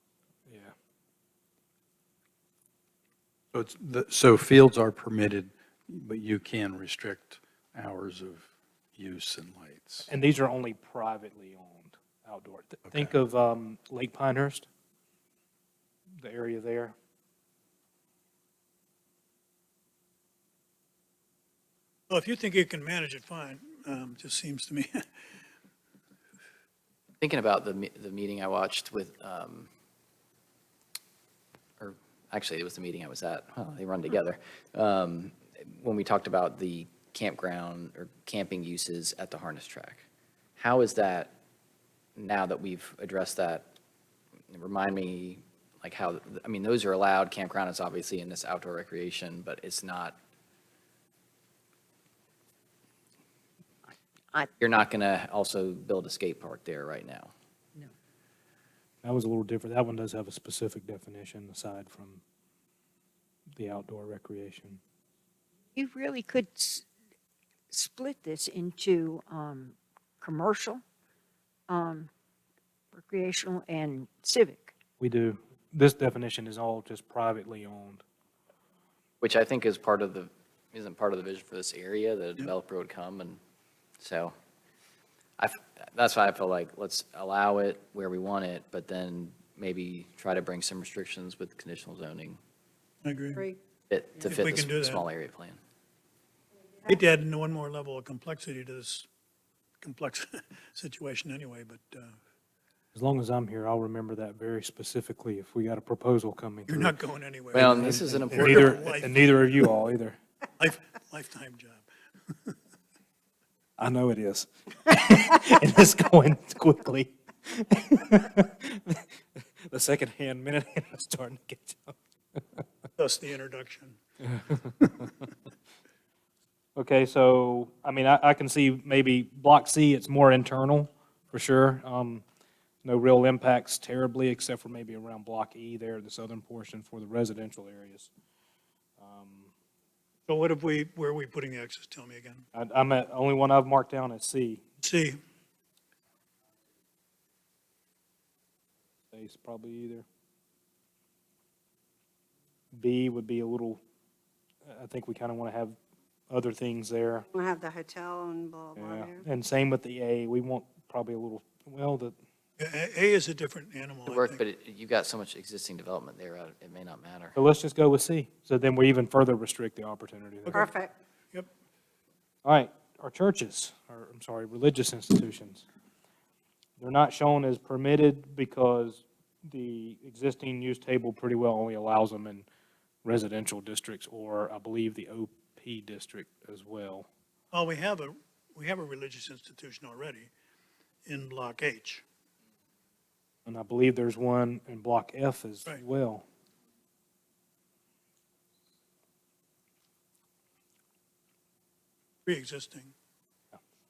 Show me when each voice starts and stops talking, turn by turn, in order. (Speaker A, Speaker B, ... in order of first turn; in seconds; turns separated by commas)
Speaker A: 0.5-0.7, Speaker B: 3.5-10.1, Speaker A: 10.1-14.7, Speaker A: 16.2-17.0, Speaker C: 22.1-25.1, Speaker D: 27.2-29.7, Speaker D: 31.8-40.0, Speaker D: 40.6-41.3, Speaker D: 42.2-43.7, Speaker D: 44.5-50.2, Speaker D: 54.6-57.3, Speaker A: 59.0-62.2, Speaker A: 63.6-64.8, Speaker E: 65.8-66.9, Speaker E: 67.7-70.8, Speaker E: 71.7-72.1, Speaker E: 72.9-74.7, Speaker A: 75.0-78.0, Speaker D: 79.2-83.4, Speaker D: 84.0-84.3, Speaker D: 85.4-92.4, Speaker C: 93.0-93.5, Speaker D: 93.9-95.6, Speaker C: 94.3-95.0, Speaker C: 96.9-99.1, Speaker C: 99.8-102.2, Speaker A: 103.0-107.0, Speaker C: 106.7-109.3, Speaker D: 107.5-108.8, Speaker A: 107.7-110.2, Speaker C: 110.6-112.6, Speaker A: 113.8-122.0, Speaker C: 123.0-124.0, Speaker A: 126.8-132.2, Speaker A: 132.8-138.1, Speaker A: 139.0-139.5, Speaker C: 140.3-142.4, Speaker A: 142.6-144.6, Speaker C: 144.8-145.2, Speaker A: 149.1-150.1, Speaker A: 152.8-153.8, Speaker A: 154.7-155.8, Speaker A: 156.3-157.3, Speaker F: 157.3-159.2, Speaker A: 158.8-162.1, Speaker C: 162.6-164.4, Speaker D: 164.1-167.4, Speaker A: 167.4-170.7, Speaker F: 170.5-170.9, Speaker A: 172.4-175.7, Speaker A: 176.8-182.5, Speaker A: 183.1-187.1, Speaker C: 187.5-190.3, Speaker C: 191.1-192.0, Speaker A: 193.5-196.2, Speaker C: 202.3-202.9